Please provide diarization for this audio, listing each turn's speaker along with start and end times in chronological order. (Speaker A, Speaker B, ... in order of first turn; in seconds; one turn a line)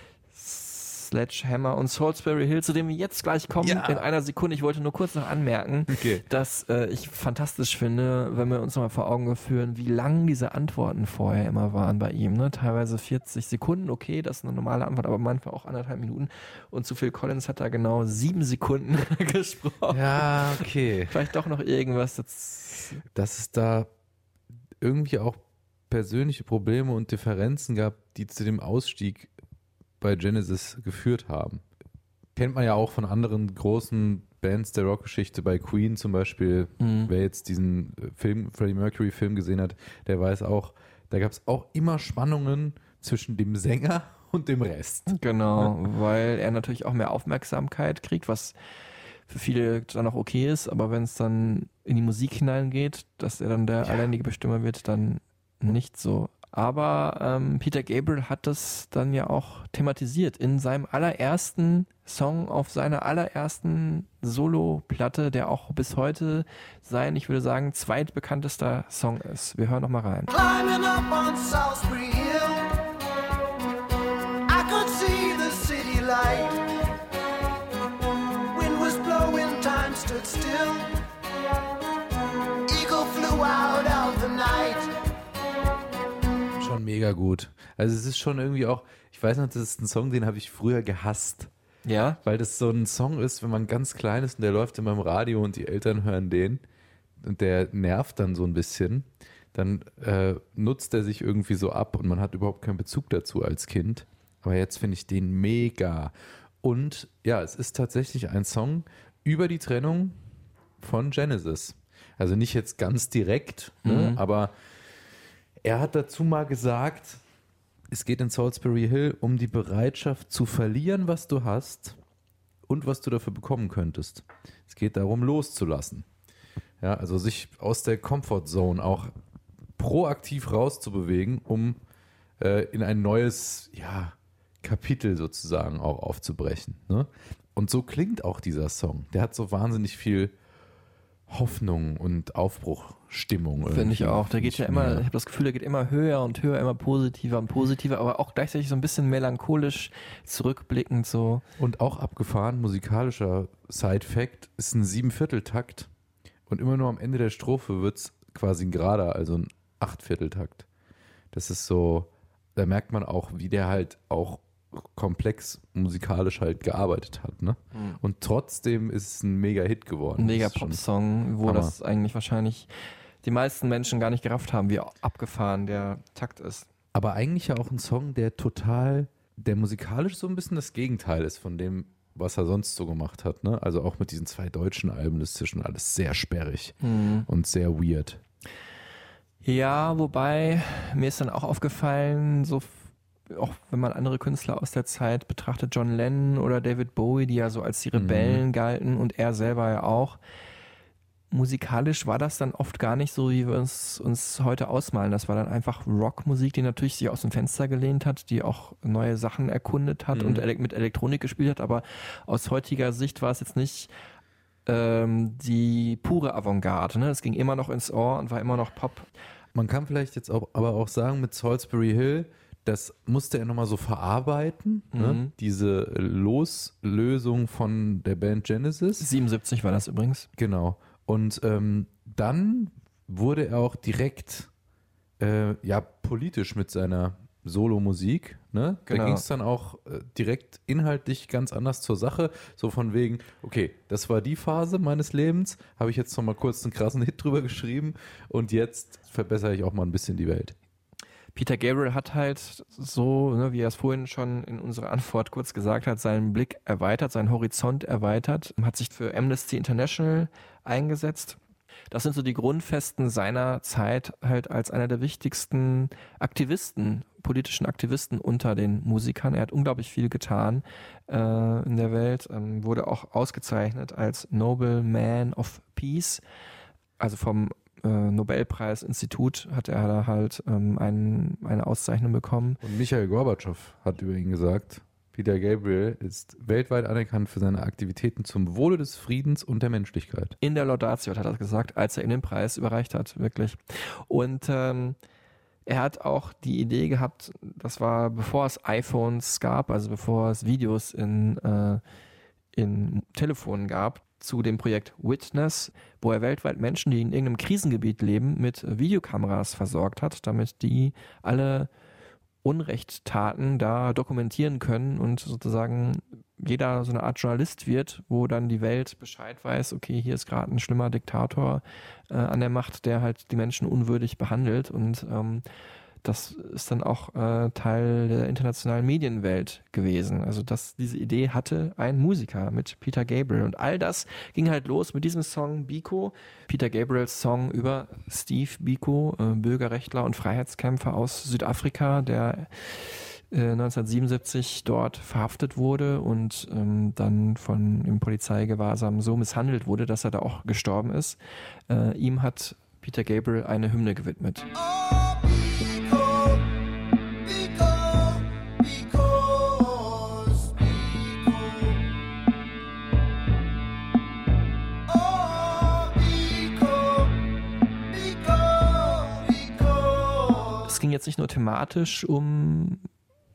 Speaker A: 0.3-23.0
Speaker B: 3.6-4.0
Speaker B: 5.9-6.2
Speaker B: 19.9-21.2
Speaker B: 23.1-23.9
Speaker B: 24.8-29.3
Speaker B: 30.0-31.6
Speaker B: 32.3-45.7
Speaker A: 36.8-37.1
Speaker A: 45.1-48.5
Speaker A: 49.3-70.3
Speaker C: 70.3-72.8
Speaker C: 74.5-76.7
Speaker C: 78.5-81.0
Speaker C: 82.7-84.9
Speaker B: 86.5-91.5
Speaker A: 91.8-92.2
Speaker B: 92.2-96.6
Speaker B: 97.2-110.2
Speaker B: 110.8-114.5
Speaker A: 113.8-114.2
Speaker B: 115.6-117.2
Speaker B: 117.9-122.0
Speaker B: 122.7-126.0
Speaker B: 126.8-129.1
Speaker B: 129.8-131.8
Speaker B: 132.4-140.3
Speaker B: 141.3-145.0
Speaker A: 143.7-151.4
Speaker B: 151.6-155.9
Speaker B: 156.5-160.7
Speaker B: 161.3-170.8
Speaker A: 167.7-168.0
Speaker A: 170.2-172.7
Speaker B: 171.4-171.7
Speaker A: 173.2-176.7
Speaker B: 176.9-186.8
Speaker A: 186.8-187.3
Speaker B: 187.3-188.2
Speaker A: 189.4-200.2
Speaker B: 197.9-198.4
Speaker A: 201.3-213.9
Speaker B: 210.1-210.4
Speaker A: 214.7-219.1
Speaker B: 219.5-229.1
Speaker A: 224.9-225.3
Speaker A: 229.0-230.3
Speaker B: 230.4-234.5
Speaker B: 235.2-250.5
Speaker A: 238.9-239.2
Speaker A: 251.3-261.4
Speaker A: 261.9-276.2
Speaker A: 277.0-282.6
Speaker B: 282.6-290.4
Speaker A: 290.4-295.0
Speaker A: 295.6-301.8
Speaker A: 302.5-311.7
Speaker A: 312.4-325.4
Speaker A: 326.0-351.2
Speaker A: 351.7-354.5
Speaker C: 354.5-356.4
Speaker C: 357.2-361.8
Speaker C: 364.9-367.2
Speaker C: 367.9-370.7
Speaker A: 370.7-372.9